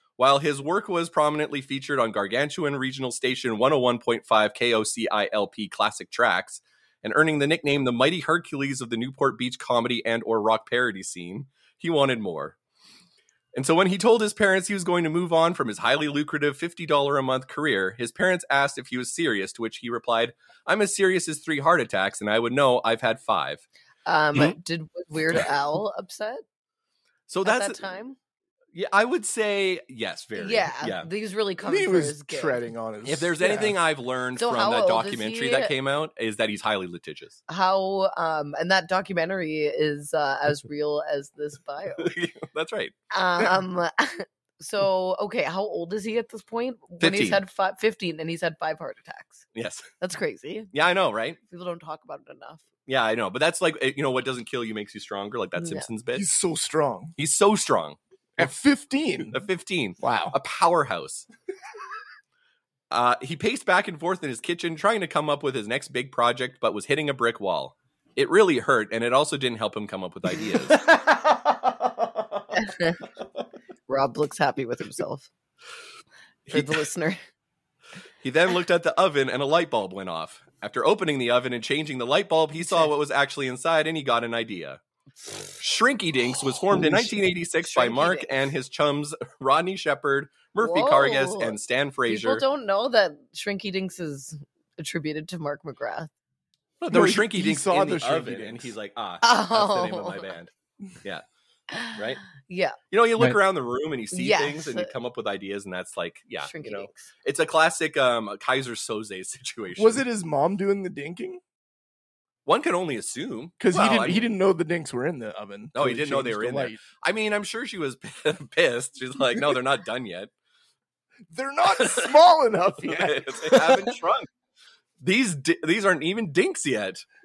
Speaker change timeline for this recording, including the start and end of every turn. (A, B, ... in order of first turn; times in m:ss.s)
0:00.2-0:12.6 A
0:13.6-0:23.6 A
0:24.1-0:26.4 B
0:27.3-0:27.8 A
0:27.4-0:28.2 B
0:28.7-0:31.1 A
0:30.4-0:32.7 B
0:31.6-0:33.8 C
0:33.0-0:37.4 A
0:34.4-0:35.7 B
0:37.5-0:42.1 B
0:42.0-0:42.9 A
0:43.1-0:49.5 B
0:47.0-0:47.4 A
0:49.6-0:49.9 A
0:50.0-0:50.7 B
0:50.7-0:51.4 A
0:51.4-0:52.7 B
0:52.9-0:56.3 A
0:55.6-0:55.9 B
0:56.2-0:57.1 C
0:57.2-0:58.5 A
0:58.4-0:59.4 C
0:59.3-1:01.3 A
1:00.0-1:00.4 C
1:02.9-1:10.8 A
1:12.6-1:13.0 B
1:13.9-1:15.3 B
1:16.5-1:17.2 B
1:16.5-1:16.8 A
1:18.2-1:24.8 A
1:22.6-1:22.9 B
1:25.6-1:32.4 A
1:26.7-1:27.2 C
1:27.6-1:28.4 B
1:30.6-1:36.1 B
1:36.8-1:40.5 A
1:36.9-1:38.7 C
1:39.2-1:40.4 B
1:41.7-1:42.8 B
1:42.0-1:42.2 A
1:42.9-1:50.0 A
1:44.1-1:44.9 B
1:46.4-1:47.1 B
1:49.8-1:51.4 C
1:52.5-1:54.3 A
1:53.6-1:56.8 C
1:55.7-2:00.3 A
2:01.3-2:03.9 C
2:01.8-2:02.2 A
2:02.8-2:04.3 A
2:05.0-2:07.0 A